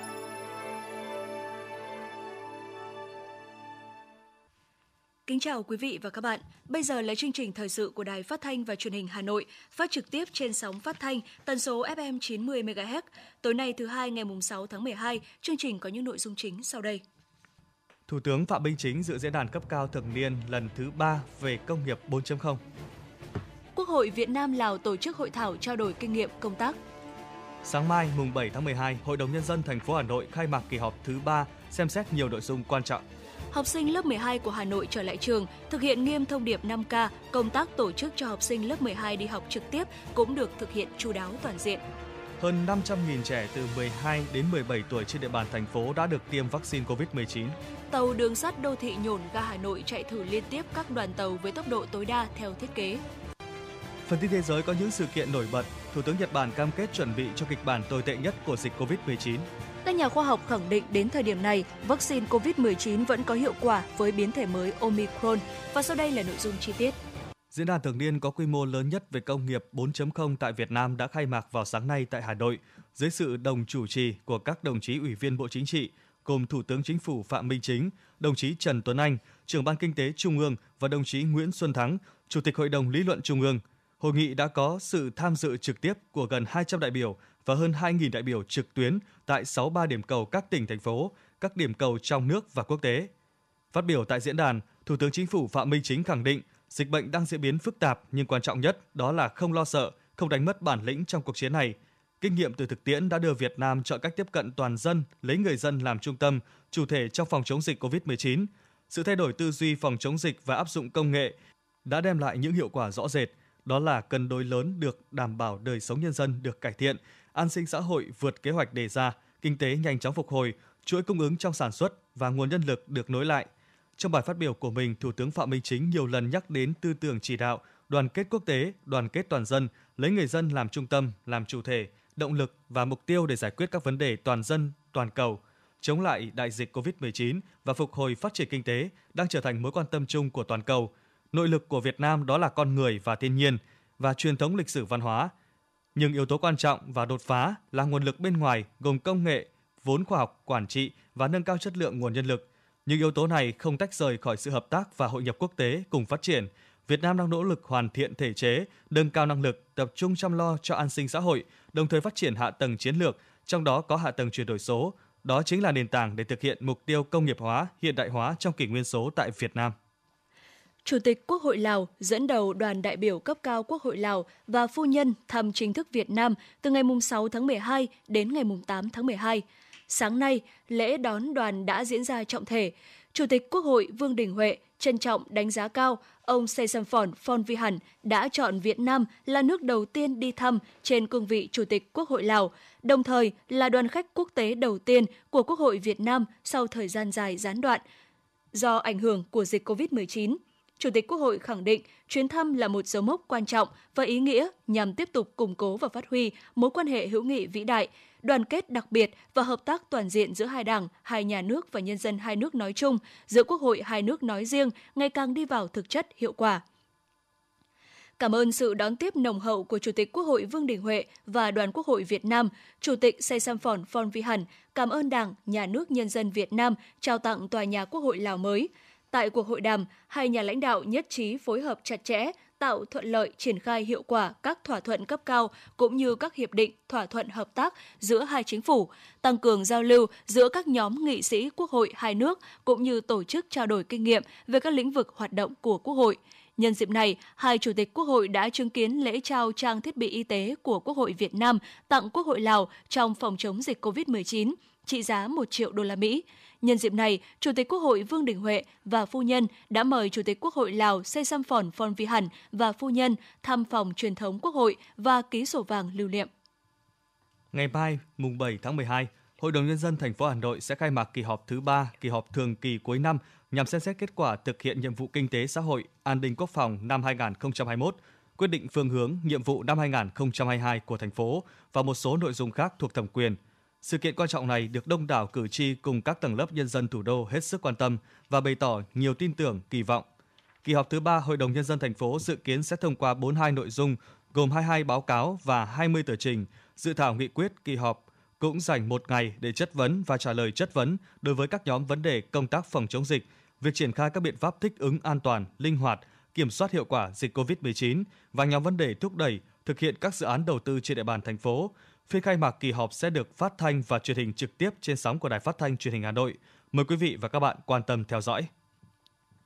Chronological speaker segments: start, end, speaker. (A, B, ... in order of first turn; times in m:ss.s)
0:05.3-0:17.0 A
0:18.1-0:22.6 B
0:23.7-0:26.8 A
0:27.6-0:33.0 B
0:33.5-0:41.8 A
0:42.4-0:47.6 B
0:47.9-0:53.0 A
0:54.0-0:59.5 B
0:59.8-1:07.0 A
1:07.5-1:33.1 B
1:33.7-2:25.3 B
2:25.9-2:49.8 B
2:50.8-3:17.8 A
3:18.5-3:36.6 A
3:38.2-4:26.3 A
4:27.5-4:50.1 B
4:50.6-5:18.5 B